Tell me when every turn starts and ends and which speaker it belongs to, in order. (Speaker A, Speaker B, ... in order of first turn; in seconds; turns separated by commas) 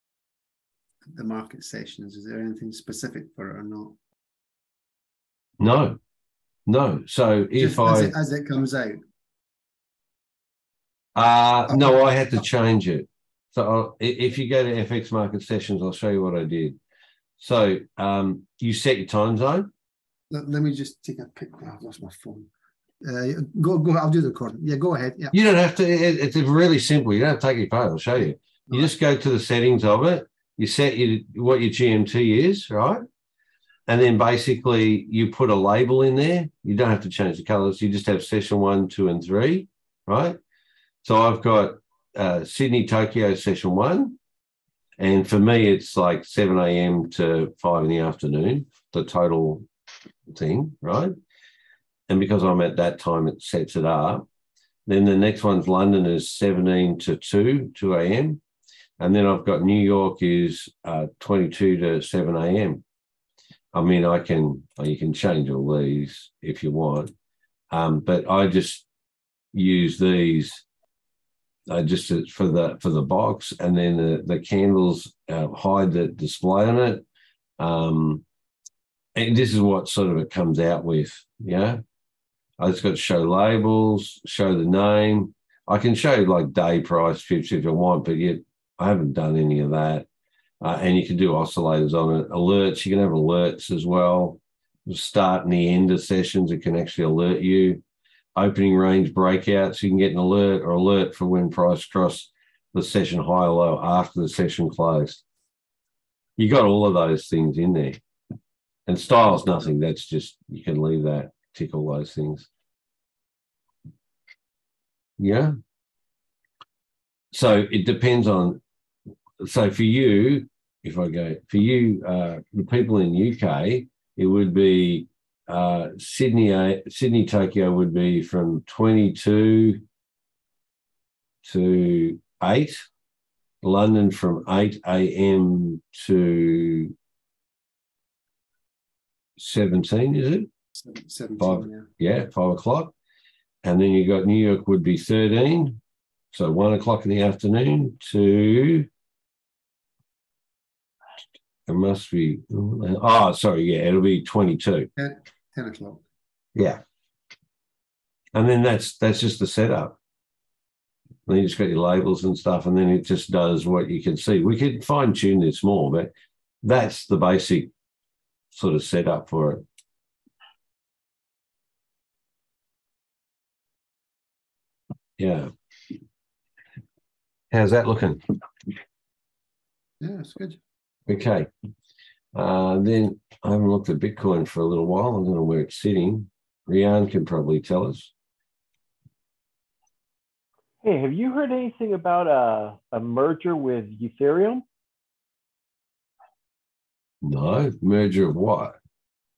Speaker A: 1.1-4.0, Speaker B: 5.6-6.0, Speaker B: 6.7-8.1, Speaker A: 7.6-9.0, Speaker B: 11.1-16.8, Speaker B: 17.4-19.7, Speaker A: 20.3-22.5, Speaker A: 23.0-25.3, Speaker B: 25.3-33.0, Speaker B: 33.9-40.4, Speaker B: 41.0-44.2, Speaker B: 45.0-49.7, Speaker B: 50.3-51.1, Speaker B: 52.1-54.2, Speaker B: 54.9-58.4, Speaker B: 59.0-62.8, Speaker B: 63.7-67.1, Speaker B: 67.7-68.9, Speaker B: 69.5-70.6, Speaker B: 71.7-77.0, Speaker B: 77.6-78.2, Speaker B: 79.1-81.8, Speaker B: 82.6-90.1, Speaker B: 90.6-97.8, Speaker B: 98.3-105.2, Speaker B: 106.4-108.0, Speaker B: 108.9-112.5, Speaker B: 115.2-115.5, Speaker B: 117.3-118.6, Speaker B: 119.4-129.8, Speaker B: 131.4-132.9, Speaker B: 133.6-136.9, Speaker B: 139.4-140.5, Speaker A: 140.8-141.9, Speaker B: 141.4-142.9, Speaker B: 143.6-145.8, Speaker B: 146.3-148.9, Speaker B: 151.7-154.9, Speaker A: 155.0-156.0, Speaker B: 156.6-156.8, Speaker B: 158.3-160.0, Speaker B: 161.3-166.1, Speaker B: 166.6-167.7, Speaker B: 168.5-169.6, Speaker B: 175.2-175.5, Speaker B: 177.5-178.2, Speaker A: 180.0-180.6, Speaker B: 181.1-181.5, Speaker B: 182.3-188.1, Speaker C: 190.8-194.6, Speaker B: 197.2-198.8